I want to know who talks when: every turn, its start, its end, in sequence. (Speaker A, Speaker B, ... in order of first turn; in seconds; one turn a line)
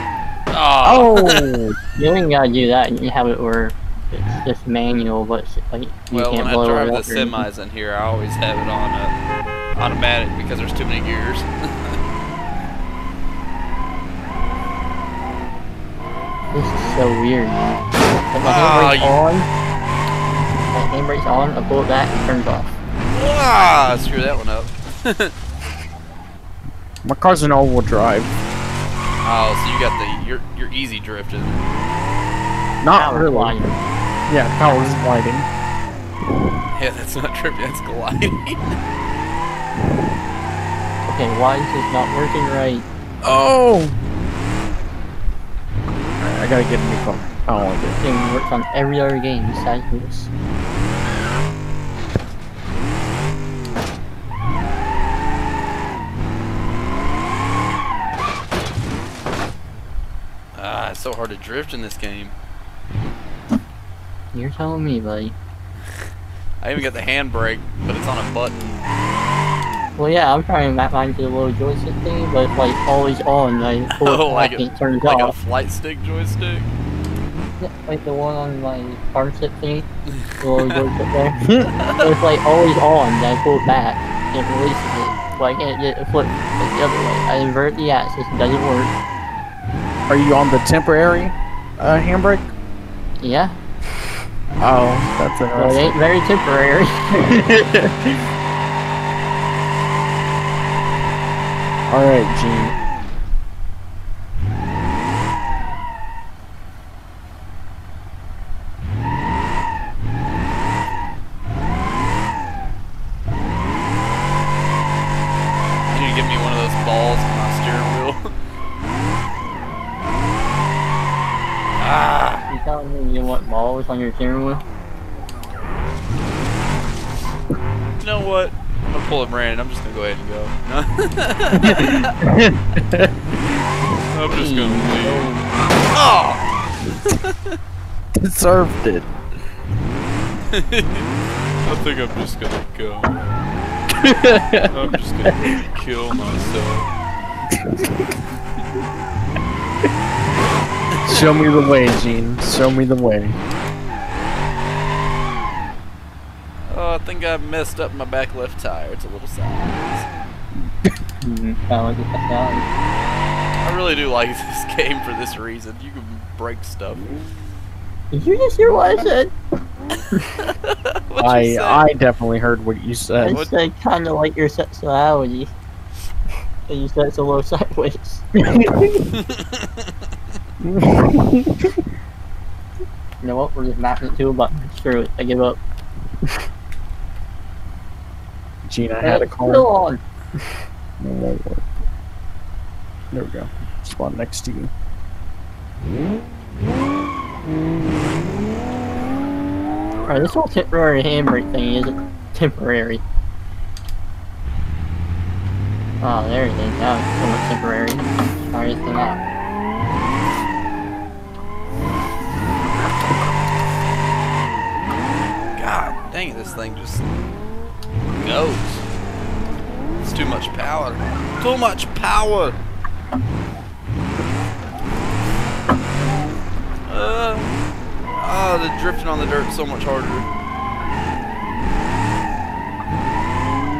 Speaker A: 0.5-1.5
Speaker B: 0.8-1.8
Speaker C: 2.0-7.4
Speaker A: 6.1-9.1
Speaker A: 9.8-12.0
Speaker C: 16.5-17.6
Speaker C: 18.3-19.5
Speaker A: 18.4-19.1
Speaker C: 20.7-22.7
Speaker A: 23.1-25.3
Speaker B: 27.0-28.3
Speaker A: 29.2-31.6
Speaker B: 32.8-33.6
Speaker C: 32.9-33.8
Speaker B: 34.3-35.5
Speaker A: 36.7-38.8
Speaker C: 41.1-42.9
Speaker B: 43.2-44.0
Speaker B: 46.2-48.0
Speaker C: 48.0-50.3
Speaker A: 60.5-62.3
Speaker C: 64.3-65.3
Speaker A: 66.6-68.6
Speaker C: 70.0-75.3
Speaker A: 74.0-76.7
Speaker C: 77.6-79.9
Speaker A: 80.1-80.8
Speaker C: 80.4-81.4
Speaker B: 81.4-81.7
Speaker A: 81.7-82.1
Speaker C: 82.0-88.9
Speaker B: 90.1-92.5
Speaker C: 93.2-93.6
Speaker B: 94.6-96.0
Speaker C: 95.5-97.3
Speaker B: 97.1-98.2
Speaker B: 101.9-102.8
Speaker A: 115.9-118.3
Speaker A: 121.8-122.4
Speaker C: 122.5-124.6
Speaker A: 128.0-132.1
Speaker B: 131.5-133.2
Speaker A: 134.1-135.3
Speaker C: 134.3-135.4
Speaker A: 135.9-137.6
Speaker B: 138.2-139.1
Speaker A: 140.5-141.1
Speaker A: 141.6-143.2
Speaker B: 144.0-144.7
Speaker A: 144.7-146.9
Speaker B: 145.2-145.5
Speaker B: 147.5-148.1
Speaker A: 150.9-151.3
Speaker B: 151.0-153.4
Speaker A: 156.7-160.1
Speaker C: 161.2-162.7
Speaker A: 163.6-167.0
Speaker C: 168.1-169.3
Speaker A: 170.4-171.9
Speaker B: 171.2-173.4
Speaker C: 173.2-175.5
Speaker C: 176.7-178.2
Speaker B: 178.3-179.1
Speaker A: 179.2-179.9
Speaker B: 180.6-181.8
Speaker C: 183.2-185.6
Speaker B: 188.6-189.7
Speaker C: 189.0-190.0
Speaker B: 191.0-191.6
Speaker B: 193.1-194.7
Speaker C: 200.1-203.0
Speaker C: 206.0-209.2
Speaker A: 215.5-217.0
Speaker A: 218.1-218.8
Speaker A: 220.0-222.6
Speaker A: 226.9-227.5
Speaker A: 228.2-230.3